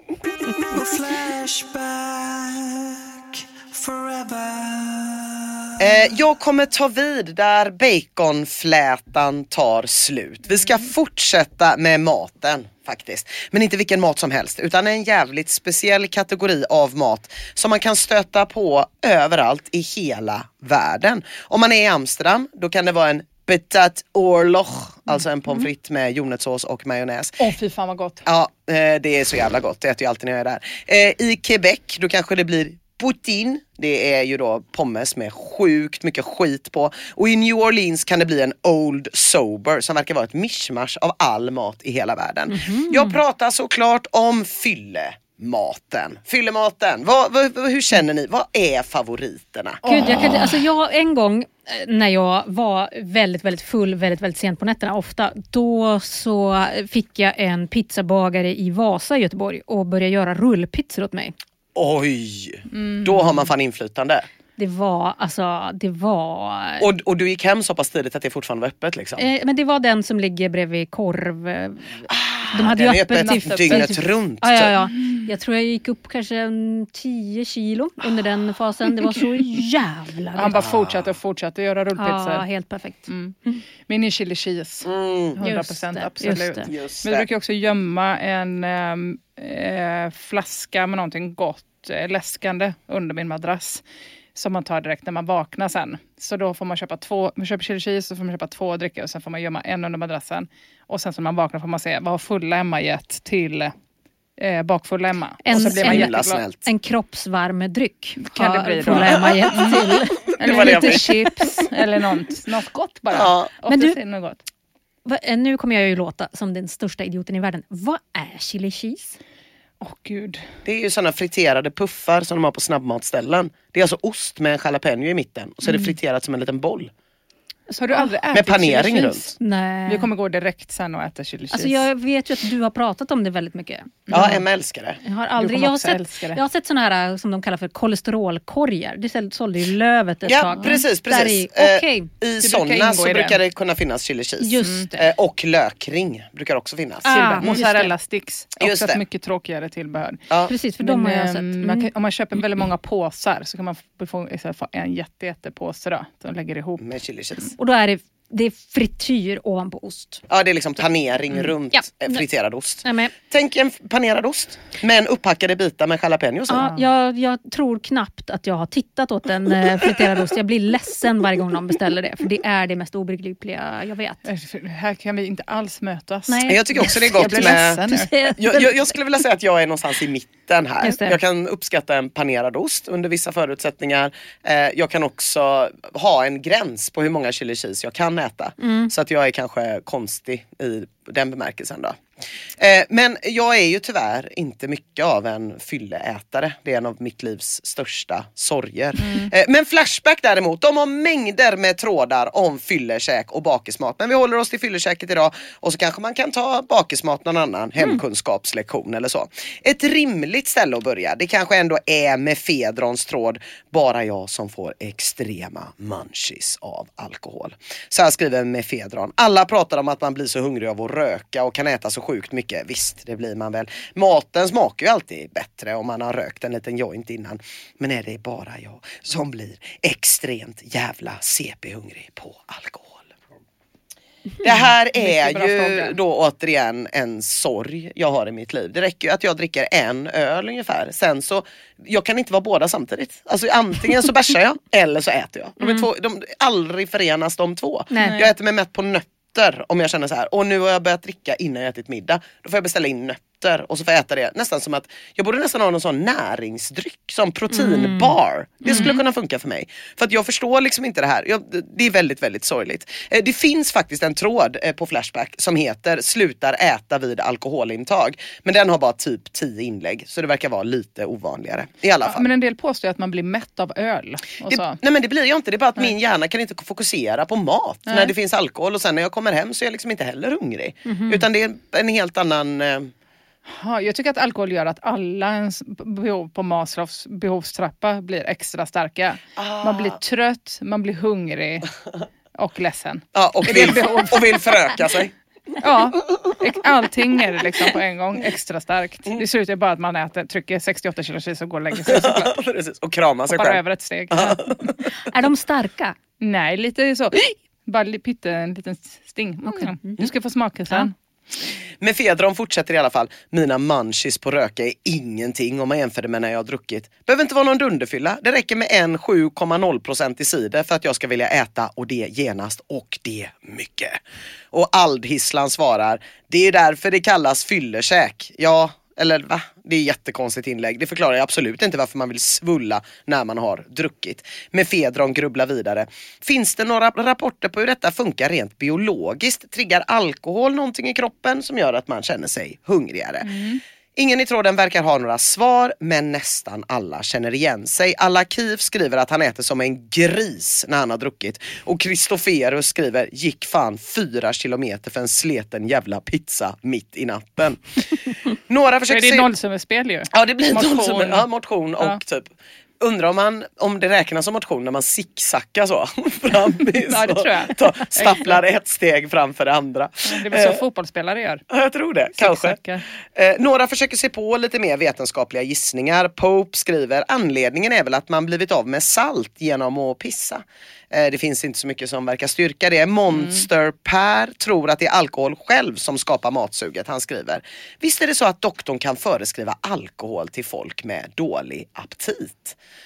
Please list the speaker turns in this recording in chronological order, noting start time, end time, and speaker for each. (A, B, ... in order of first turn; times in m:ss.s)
0:00.5-0:05.9 A
0:05.8-0:27.4 B
0:27.4-0:28.2 C
0:28.3-0:49.8 B
0:42.5-0:43.2 D
0:49.8-0:50.6 C
0:49.9-1:01.4 D
1:01.8-1:04.3 B
1:02.7-1:03.3 C
1:04.6-1:06.8 D
1:06.8-1:09.3 B
1:09.2-1:20.6 D
1:12.1-1:14.7 B
1:13.2-1:13.9 C
1:20.4-1:22.4 C
1:20.6-1:21.0 B
1:22.0-1:23.6 D
1:23.1-1:23.3 C
1:23.9-1:33.8 C
1:24.8-1:25.4 B
1:25.4-1:26.7 D
1:26.7-1:27.3 B
1:34.4-1:43.7 C
1:44.4-1:46.4 C
1:45.4-1:51.1 D
1:45.5-1:46.6 B
1:48.2-1:54.4 C
1:49.2-1:49.8 B
1:50.4-1:51.1 B
1:53.1-1:53.5 B
1:53.7-1:54.0 D
1:55.1-1:59.2 D
1:59.8-2:00.4 C
2:00.6-2:06.9 B
2:07.7-2:09.3 C
2:08.3-2:09.3 B
2:09.4-2:10.1 D
2:09.9-2:11.9 C
2:11.5-2:14.2 D
2:14.1-2:14.4 C
2:14.1-2:15.0 B
2:15.0-2:22.1 D
2:15.4-2:16.4 C
2:20.3-2:27.6 B
2:22.4-2:23.4 C
2:24.4-2:25.0 D
2:27.1-2:27.9 D
2:27.1-2:30.2 C
2:28.6-2:29.0 B
2:30.5-2:31.9 D
2:30.8-2:36.8 C
2:36.8-2:37.5 B
2:37.6-2:40.2 D
2:40.3-2:46.7 B
2:41.7-2:42.2 D
2:42.8-2:43.1 D
2:46.5-2:54.2 D
2:54.2-2:58.3 C
2:56.3-2:58.7 D
2:56.5-2:57.8 B
2:58.4-3:12.0 B
3:00.8-3:01.2 D
3:08.6-3:08.9 D
3:12.6-3:53.1 B
3:19.0-3:19.3 C
3:54.4-4:32.3 B
3:54.5-3:56.0 C
4:05.6-4:05.9 D
4:07.9-4:08.2 D
4:08.0-4:08.3 C
4:17.5-4:19.0 D
4:32.0-4:34.8 C
4:34.5-4:42.9 B
4:37.9-4:38.1 C
4:40.9-4:41.2 D
4:43.5-4:51.7 C
4:49.4-4:50.0 B
4:52.4-4:54.2 C
4:53.2-4:55.1 B
4:55.6-5:02.4 C
5:01.9-5:04.7 B
5:03.3-5:04.4 C
5:05.0-5:06.0 D
5:06.2-5:10.9 C
5:09.5-5:10.0 D
5:11.8-5:24.0 B
5:24.5-5:43.3 B
5:43.2-5:43.6 C
5:44.0-5:59.3 B
5:58.9-6:01.2 C
6:00.1-6:10.6 B
6:06.8-6:08.4 C
6:10.1-6:11.4 C
6:11.5-6:12.6 B
6:12.1-6:12.8 C
6:13.2-6:32.6 B
6:23.1-6:23.4 C